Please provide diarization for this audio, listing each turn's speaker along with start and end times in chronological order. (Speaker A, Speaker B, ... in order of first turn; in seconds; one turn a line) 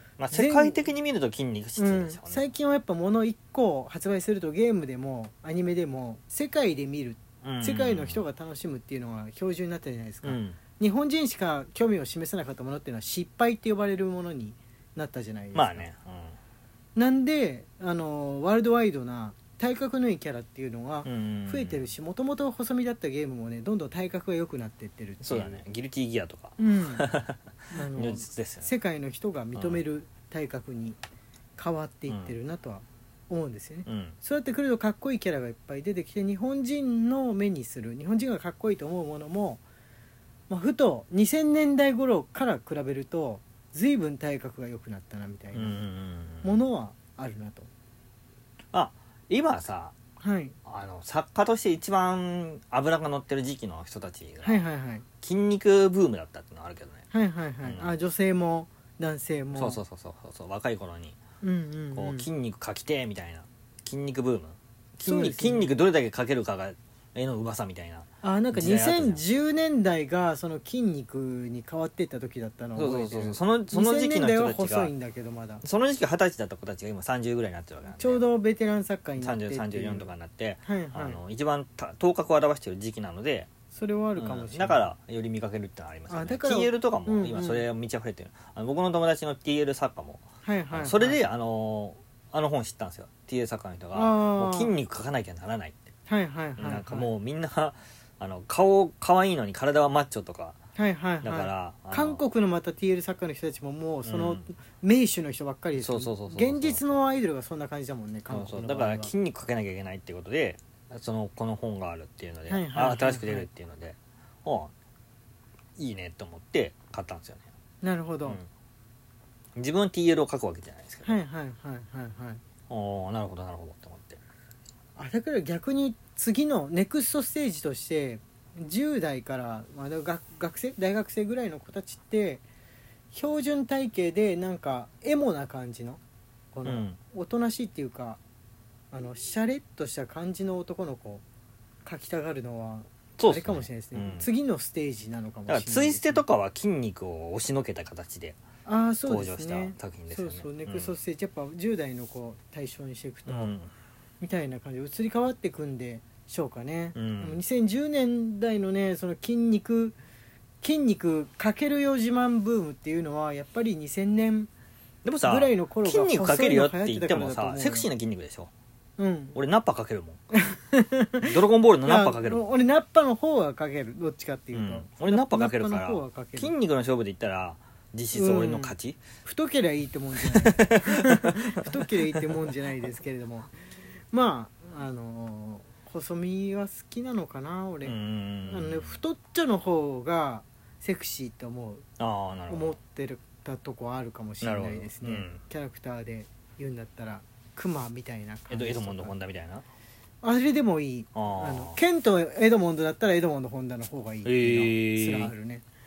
Speaker A: 0.2-2.4
Speaker B: 0.3-0.9
Speaker B: 1.8-15.9
Speaker A: 7.4-8.2
Speaker A: 10.2-10.6
Speaker A: 15.5-16.4
Speaker B: 16.9-25.6
Speaker A: 21.1-21.9
Speaker A: 25.2-28.7
Speaker B: 26.6-27.1
Speaker B: 27.7-31.0
Speaker A: 29.6-29.8
Speaker B: 31.6-39.6
Speaker A: 32.1-32.3
Speaker A: 33.9-34.2
Speaker B: 40.5-45.8
Speaker A: 45.5-46.6
Speaker B: 46.4-47.7
Speaker A: 48.7-50.0
Speaker B: 50.2-50.6
Speaker A: 50.7-54.7
Speaker B: 54.4-55.0
Speaker A: 55.2-57.0
Speaker B: 57.1-59.8
Speaker A: 57.6-58.0
Speaker A: 59.5-61.2
Speaker B: 61.4-62.3
Speaker A: 62.0-69.2
Speaker B: 65.0-65.7
Speaker B: 68.2-75.6
Speaker A: 72.8-74.9
Speaker A: 75.6-78.2
Speaker B: 78.0-80.1
Speaker A: 79.2-83.5
Speaker B: 80.6-81.2
Speaker B: 83.7-84.9
Speaker A: 84.2-95.8
Speaker B: 86.1-87.7
Speaker B: 90.4-91.2
Speaker B: 93.9-94.7
Speaker B: 96.1-97.1
Speaker A: 96.6-100.6
Speaker B: 100.8-109.1
Speaker A: 101.2-102.2
Speaker A: 104.0-104.4
Speaker A: 105.8-107.0
Speaker A: 108.3-114.7
Speaker B: 112.5-113.5
Speaker A: 115.8-117.4
Speaker B: 117.8-118.4
Speaker A: 119.6-121.2
Speaker B: 121.0-122.4
Speaker A: 122.7-124.2
Speaker B: 125.0-132.4
Speaker B: 133.1-136.0
Speaker B: 136.5-138.2
Speaker A: 136.7-137.0
Speaker B: 138.9-141.2
Speaker B: 141.8-146.2
Speaker A: 143.2-144.3
Speaker A: 145.5-148.4
Speaker B: 148.7-153.5
Speaker A: 149.1-151.0
Speaker A: 153.3-153.7
Speaker B: 154.2-160.0
Speaker A: 156.9-157.4
Speaker B: 160.6-164.5
Speaker A: 165.1-168.5
Speaker B: 165.2-167.9
Speaker B: 169.0-169.4
Speaker A: 169.3-170.2
Speaker B: 170.3-171.3
Speaker A: 171.2-172.4
Speaker B: 171.8-176.5
Speaker A: 174.5-179.0
Speaker B: 178.1-183.5
Speaker A: 180.2-182.5
Speaker B: 184.1-191.8
Speaker A: 187.8-189.0
Speaker A: 192.0-192.8
Speaker B: 192.5-199.1
Speaker A: 194.4-195.4
Speaker A: 198.5-199.7
Speaker B: 200.2-205.6
Speaker A: 201.2-201.8
Speaker A: 204.2-205.3